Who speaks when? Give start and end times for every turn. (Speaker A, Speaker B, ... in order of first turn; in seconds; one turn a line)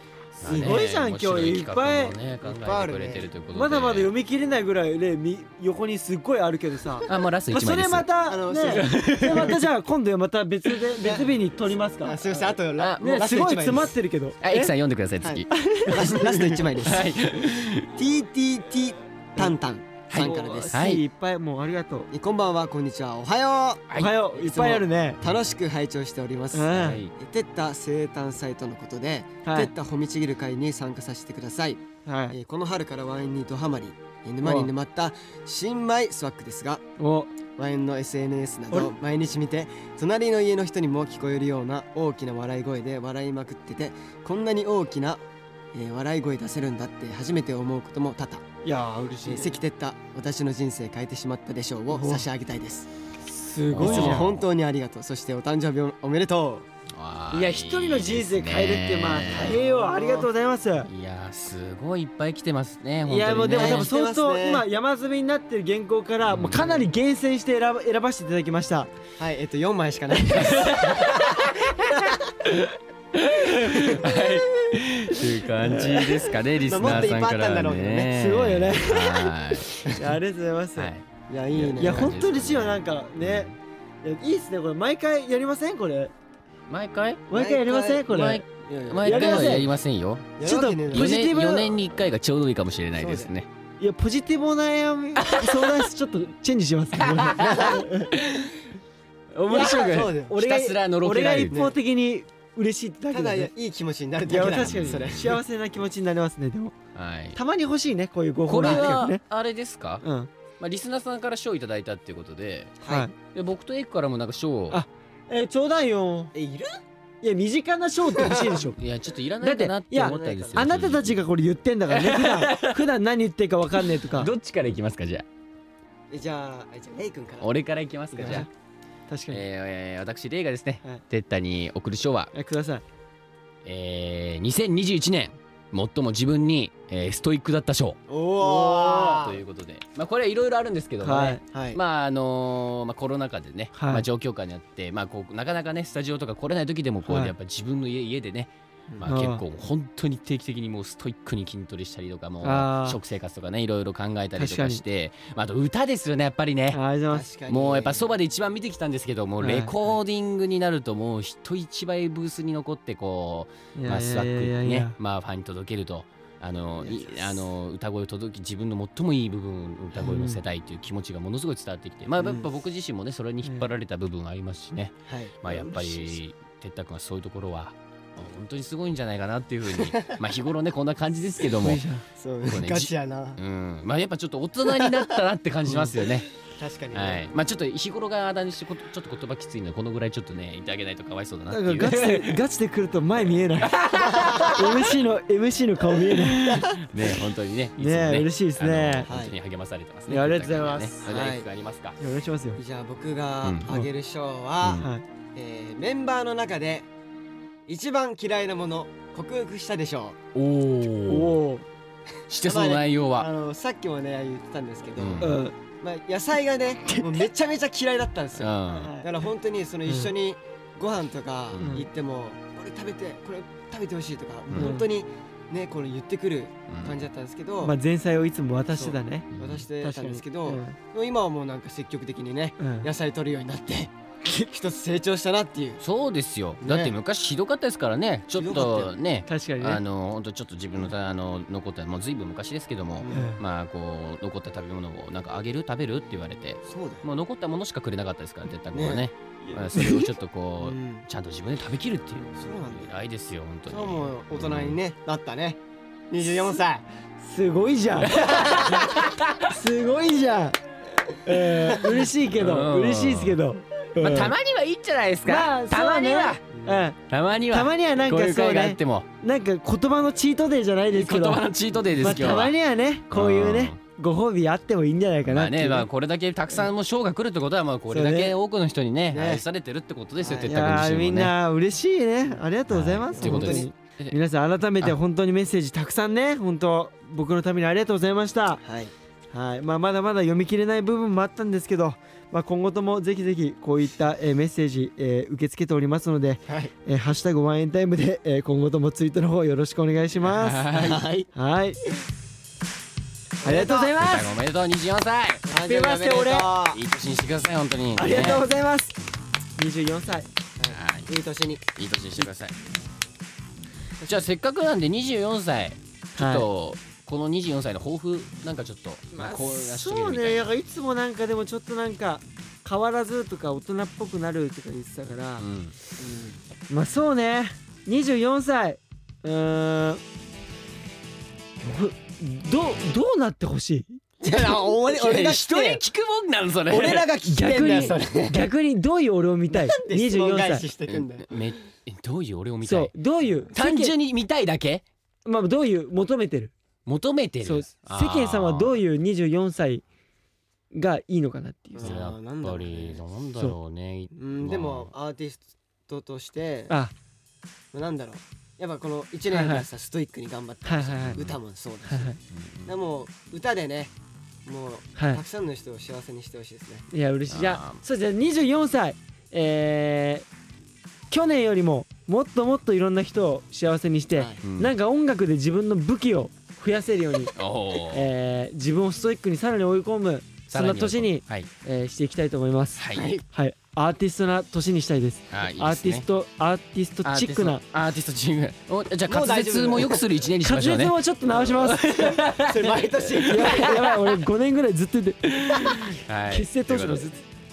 Speaker A: 0.4-4.1
Speaker B: 0.4-0.8
Speaker C: 0.5-2.1
Speaker B: 2.4-3.3
Speaker C: 3.5-12.4
Speaker A: 7.1-8.1
Speaker B: 8.3-9.6
Speaker A: 8.7-9.5
Speaker B: 11.0-11.4
Speaker B: 11.9-14.0
Speaker A: 12.8-13.2
Speaker C: 13.0-14.7
Speaker A: 14.4-17.9
Speaker B: 15.2-17.1
Speaker C: 15.5-16.6
Speaker B: 17.9-20.9
Speaker A: 20.1-21.0
Speaker C: 20.1-22.1
Speaker B: 22.1-36.8
Speaker A: 23.9-24.1
Speaker C: 24.0-25.2
Speaker C: 26.5-27.0
Speaker A: 26.8-27.1
Speaker C: 29.4-29.7
Speaker C: 32.1-32.4
Speaker C: 34.4-34.7
Speaker C: 37.0-37.3
Speaker B: 37.5-45.2
Speaker B: 45.7-48.5
Speaker C: 48.6-49.6
Speaker B: 49.2-52.9
Speaker C: 51.9-52.2
Speaker C: 53.3-54.3
Speaker A: 53.7-54.5
Speaker B: 53.8-56.7
Speaker A: 56.9-59.6
Speaker C: 57.3-60.9
Speaker B: 59.3-60.3
Speaker A: 60.9-63.9
Speaker C: 63.1-68.9
Speaker B: 63.5-64.7
Speaker A: 66.2-66.8
Speaker B: 69.2-72.2
Speaker A: 70.3-71.9
Speaker A: 73.1-80.0
Speaker B: 74.0-74.3
Speaker B: 76.6-78.1
Speaker C: 78.1-79.3
Speaker C: 79.8-80.9
Speaker A: 80.8-83.5
Speaker B: 81.3-82.2
Speaker C: 81.8-83.5
Speaker C: 84.0-86.1
Speaker A: 86.7-87.2
Speaker C: 87.3-88.4
Speaker B: 87.3-89.7
Speaker A: 88.1-90.3
Speaker C: 89.0-89.7
Speaker B: 90.4-91.3
Speaker C: 90.4-91.8
Speaker A: 90.9-93.5
Speaker B: 93.0-93.3
Speaker C: 93.8-98.1
Speaker A: 95.2-95.9
Speaker A: 97.0-98.6
Speaker B: 97.4-97.8
Speaker A: 99.3-101.6
Speaker C: 99.5-103.5
Speaker B: 99.5-100.3
Speaker B: 101.5-101.8
Speaker B: 103.1-105.4
Speaker C: 104.3-106.8
Speaker A: 104.7-105.2
Speaker A: 107.0-107.4
Speaker C: 107.3-109.2
Speaker A: 108.5-110.0
Speaker B: 108.6-109.0
Speaker C: 110.0-110.3
Speaker A: 110.6-112.8
Speaker B: 112.8-113.1
Speaker C: 112.9-113.1
Speaker A: 113.3-114.8
Speaker C: 114.7-116.3
Speaker B: 116.3-116.7
Speaker C: 117.2-118.8
Speaker B: 118.2-118.6
Speaker A: 118.8-121.2
Speaker C: 119.4-124.3
Speaker B: 119.9-120.7
Speaker A: 121.9-122.8
Speaker A: 123.8-125.3
Speaker B: 126.1-127.5
Speaker A: 127.4-128.5
Speaker B: 128.1-128.5
Speaker C: 129.1-129.4
Speaker A: 129.3-132.3
Speaker C: 132.3-132.8
Speaker A: 133.7-156.8
Speaker B: 138.1-139.4
Speaker C: 141.0-141.4
Speaker B: 141.5-141.8
Speaker C: 143.8-144.0
Speaker C: 147.1-147.3
Speaker C: 149.1-149.4
Speaker C: 152.4-153.0
Speaker C: 154.4-154.8
Speaker C: 156.7-157.3
Speaker B: 157.1-158.1
Speaker A: 157.5-181.8
Speaker C: 159.4-159.7
Speaker C: 163.8-164.9
Speaker B: 166.8-167.4
Speaker C: 170.1-170.4
Speaker B: 172.2-172.5
Speaker B: 175.1-176.2
Speaker B: 179.8-180.1
Speaker C: 181.6-182.1
Speaker B: 182.2-183.4
Speaker A: 182.5-186.3
Speaker B: 184.6-185.1
Speaker C: 185.7-185.9
Speaker B: 186.4-187.2
Speaker A: 186.9-192.4
Speaker C: 191.5-196.8
Speaker A: 193.6-194.7
Speaker A: 196.3-202.0
Speaker B: 196.4-196.8
Speaker C: 197.8-199.1
Speaker B: 199.1-199.3
Speaker C: 200.1-201.0
Speaker B: 201.0-201.5
Speaker C: 202.0-202.6
Speaker B: 202.6-206.9
Speaker A: 203.4-203.8
Speaker A: 204.6-204.9
Speaker B: 207.7-210.2
Speaker A: 210.3-211.4
Speaker C: 211.1-211.7
Speaker A: 212.3-213.3
Speaker B: 212.4-227.8
Speaker A: 215.0-215.4
Speaker C: 215.2-215.6
Speaker A: 218.4-218.9
Speaker C: 218.7-219.1
Speaker A: 221.5-221.8
Speaker C: 221.6-221.9
Speaker A: 224.5-224.8
Speaker C: 224.6-224.9
Speaker A: 226.7-227.0
Speaker C: 227.6-229.3
Speaker B: 228.7-235.8
Speaker A: 229.3-229.6
Speaker C: 229.8-230.8
Speaker C: 232.6-232.9
Speaker A: 235.8-254.8
Speaker B: 236.6-236.9
Speaker B: 238.3-238.9
Speaker C: 239.3-239.8
Speaker B: 243.0-243.3
Speaker C: 243.1-243.4
Speaker B: 246.7-247.1
Speaker B: 248.7-249.1
Speaker C: 249.4-250.1
Speaker B: 250.6-251.1
Speaker B: 252.3-252.9
Speaker B: 253.7-255.6
Speaker B: 256.1-256.9
Speaker C: 257.2-258.9
Speaker A: 258.0-259.4
Speaker B: 258.4-259.0
Speaker C: 259.5-264.3
Speaker A: 262.0-263.4
Speaker A: 264.0-266.5
Speaker C: 265.3-267.0
Speaker B: 266.5-266.9
Speaker A: 267.1-269.1
Speaker C: 267.5-271.4
Speaker A: 270.9-272.6
Speaker C: 272.0-275.9
Speaker A: 273.1-273.8
Speaker A: 275.3-281.3
Speaker C: 277.9-278.4
Speaker B: 279.1-279.4
Speaker B: 280.2-280.6
Speaker C: 280.4-288.6
Speaker A: 282.7-284.1
Speaker B: 283.2-283.7
Speaker B: 288.6-288.9
Speaker C: 289.3-300.7
Speaker B: 296.5-296.7
Speaker A: 300.2-301.1
Speaker B: 300.7-301.3
Speaker C: 301.3-301.8
Speaker B: 303.4-303.9
Speaker C: 303.4-304.3
Speaker A: 303.7-305.5
Speaker B: 305.5-306.8
Speaker C: 305.5-306.5
Speaker A: 306.7-308.4
Speaker C: 308.0-308.9
Speaker B: 308.2-308.4
Speaker C: 309.6-310.3
Speaker B: 310.6-311.7
Speaker A: 310.7-311.1
Speaker A: 311.8-312.6
Speaker A: 314.1-320.5
Speaker C: 316.2-316.5
Speaker C: 319.2-325.5
Speaker A: 325.4-325.7
Speaker B: 326.0-326.4
Speaker C: 326.7-330.0
Speaker C: 331.6-334.0
Speaker B: 334.2-335.8
Speaker A: 334.3-337.1
Speaker B: 336.7-338.5
Speaker C: 337.2-340.7
Speaker B: 339.5-341.3
Speaker A: 340.9-342.9
Speaker C: 342.6-343.9
Speaker A: 343.5-344.8
Speaker C: 345.3-346.5
Speaker A: 346.9-348.8
Speaker C: 347.4-349.8
Speaker C: 350.7-352.0
Speaker B: 351.8-353.0
Speaker A: 351.8-354.9
Speaker B: 354.1-356.8
Speaker C: 356.7-356.9
Speaker B: 357.7-363.9
Speaker C: 359.3-359.7
Speaker C: 360.6-361.2
Speaker C: 361.9-362.2
Speaker A: 362.4-362.7
Speaker B: 364.4-366.9
Speaker C: 365.0-365.2
Speaker C: 366.9-370.3
Speaker A: 367.3-367.8
Speaker C: 371.1-377.3
Speaker B: 374.1-374.4
Speaker A: 374.4-374.7
Speaker A: 377.4-378.1
Speaker C: 377.9-387.6
Speaker A: 380.5-381.5
Speaker A: 382.8-383.1
Speaker B: 382.9-383.2
Speaker A: 385.3-386.1
Speaker A: 387.1-394.1
Speaker B: 389.1-390.1
Speaker C: 390.4-392.2
Speaker B: 392.4-393.8
Speaker C: 393.2-397.2
Speaker A: 395.3-397.1